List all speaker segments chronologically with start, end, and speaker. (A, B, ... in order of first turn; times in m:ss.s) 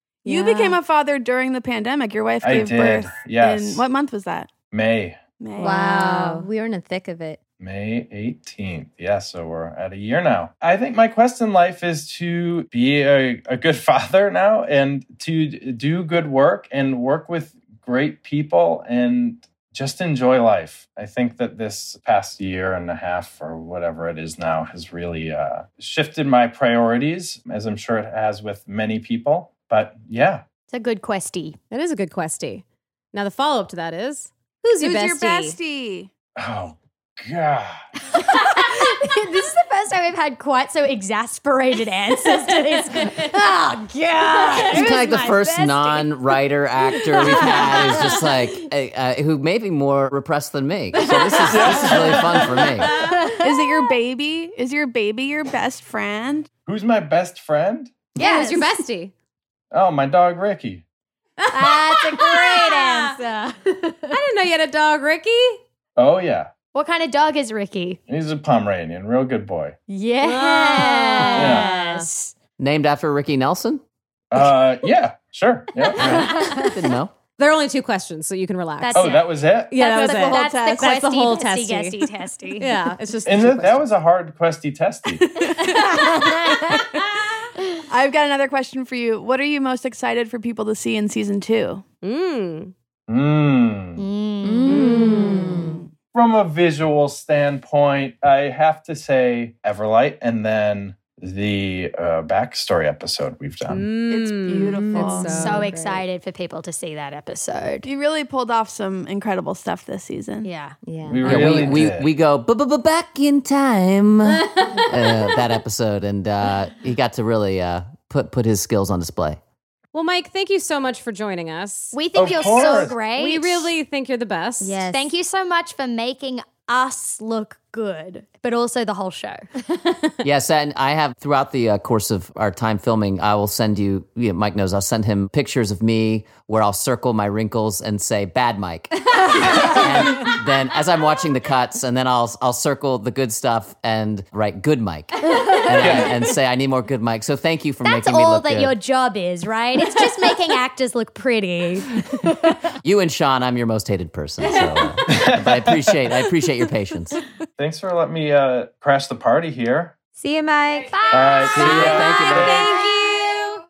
0:00.2-0:04.5 A
0:00.3-0:00.7 B
0:02.4-0:03.8 C
0:04.7-0:05.2 C
0:05.4-0:06.0 A
0:05.6-0:06.5 D
0:05.6-0:07.4 B
0:07.6-0:30.4 C
0:30.7-0:31.6 E
0:31.7-0:35.6 D
0:34.8-0:36.1 A
0:36.4-0:37.8 C
0:38.1-0:46.2 E
0:43.0-0:43.2 D
0:44.6-0:52.9 F
0:47.1-0:48.3 E
0:51.0-0:53.2 D
0:51.5-0:52.5 C
0:52.9-0:53.9 E
0:53.4-0:56.5 A
0:56.6-0:58.1 C
0:58.1-0:58.7 E
0:58.2-0:59.1 D
0:59.7-1:00.8 C
1:01.4-1:03.2 D
1:01.5-1:04.2 E
1:04.1-1:05.6 D
1:06.0-1:06.5 C
1:06.7-1:08.0 E
1:08.1-1:09.8 C
1:09.9-1:12.3 E
1:10.2-1:12.1 D
1:11.3-1:11.7 C
1:12.6-1:13.8 F
1:14.3-1:16.4 C
1:16.0-1:17.1 F
1:16.0-1:16.8 E
1:17.4-1:19.2 D
1:18.8-1:22.9 E
1:18.9-1:19.8 C
1:19.7-1:23.9 D
1:19.8-1:20.9 A
1:23.2-1:25.3 C
1:25.2-1:26.8 A
1:25.6-1:27.0 E
1:27.9-1:31.8 A
1:32.0-1:32.7 D
1:33.1-1:34.0 C
1:34.0-1:35.5 E
1:34.4-1:35.8 B
1:34.7-1:35.7 D
1:36.1-1:43.9 C
1:43.7-1:45.7 D
1:44.1-1:45.6 A
1:44.7-1:46.0 B
1:45.2-1:47.9 E
1:47.8-1:50.5 A
1:50.4-1:50.8 E
1:50.8-1:51.8 B
1:51.0-1:52.1 C
1:51.2-1:59.4 F
1:54.2-1:55.1 D
1:59.9-2:04.8 D
2:01.9-2:03.7 E
2:02.1-2:03.0 C
2:04.6-2:05.1 B
2:04.9-2:09.4 E
2:10.2-2:28.7 F
2:25.4-2:25.9 E
2:25.7-2:26.1 C
2:27.8-2:32.7 E
2:32.8-2:37.2 F
2:35.1-2:36.0 C
2:37.6-2:40.0 C
2:40.2-2:41.0 B
2:40.9-2:43.3 E
2:41.1-2:42.7 C
2:41.5-2:42.6 F
2:42.1-2:43.5 B
2:42.6-2:42.9 D